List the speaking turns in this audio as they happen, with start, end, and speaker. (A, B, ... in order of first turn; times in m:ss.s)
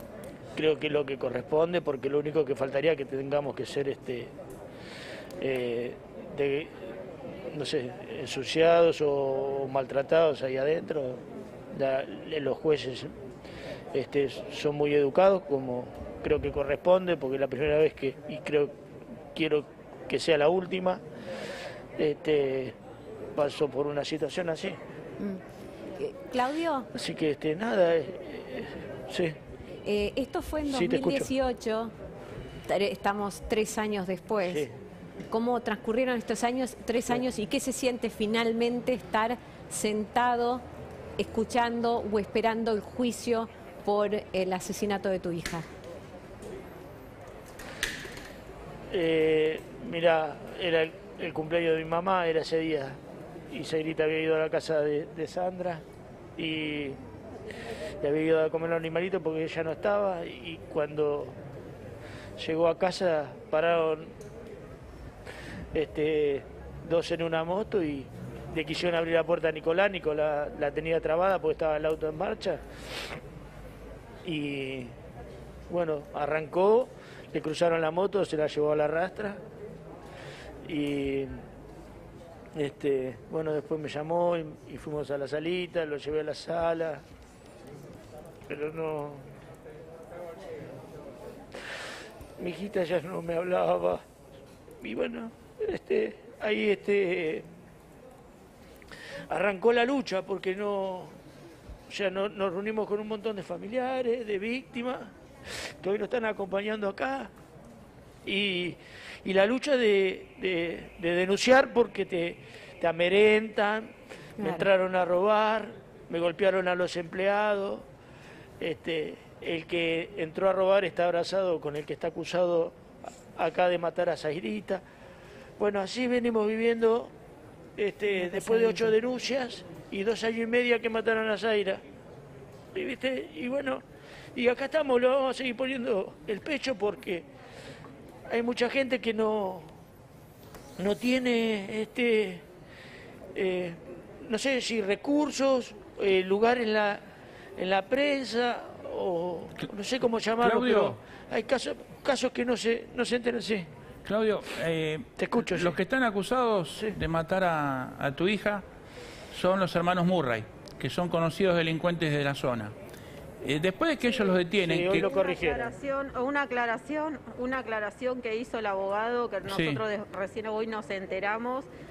0:00.6-0:04.3 A
0:05.4-0:06.7 A
0:07.5-0:13.1 A
0:13.9-0:18.7 A
0:19.3-0:21.0 A
0:22.0-0:22.8 A
0:23.3-0:24.8 A
0:26.0-0:26.9 B
0:26.9-0:29.4 A
0:29.8-0:31.9 B
0:30.7-0:31.3 A
0:32.7-0:34.7 B
0:34.4-0:34.7 A
0:35.3-0:40.6 B
0:41.2-0:45.7 B
0:48.9-0:53.0 A
0:53.5-0:55.8 A
0:56.4-0:57.0 A
0:58.0-1:01.4 A
1:02.4-1:04.1 A
1:05.7-1:12.6 A
1:14.2-1:14.9 A
1:15.7-1:19.4 A
1:20.6-1:21.4 A
1:22.6-1:27.0 A
1:28.5-1:29.2 A
1:32.4-1:34.0 A
1:34.8-1:37.4 A
1:39.3-1:41.2 A
1:41.9-1:47.3 A
1:48.2-1:53.9 A
1:54.4-1:57.8 A
1:54.4-1:54.6 B
1:58.6-2:02.8 A
2:03.3-2:04.8 A
2:05.6-2:07.1 A
2:07.8-2:11.8 A
2:08.4-2:08.9 B
2:12.7-2:13.8 A
2:14.3-2:17.3 A
2:18.3-2:19.8 A
2:20.8-2:22.4 A
2:23.3-2:27.0 A
2:27.6-2:33.7 A
2:30.4-2:31.0 C
2:34.1-2:38.6 C
2:35.2-2:35.8 A
2:39.3-2:42.7 C
2:43.4-2:45.1 C
2:44.6-2:45.8 A
2:44.9-2:51.7 D
2:49.5-2:49.8 C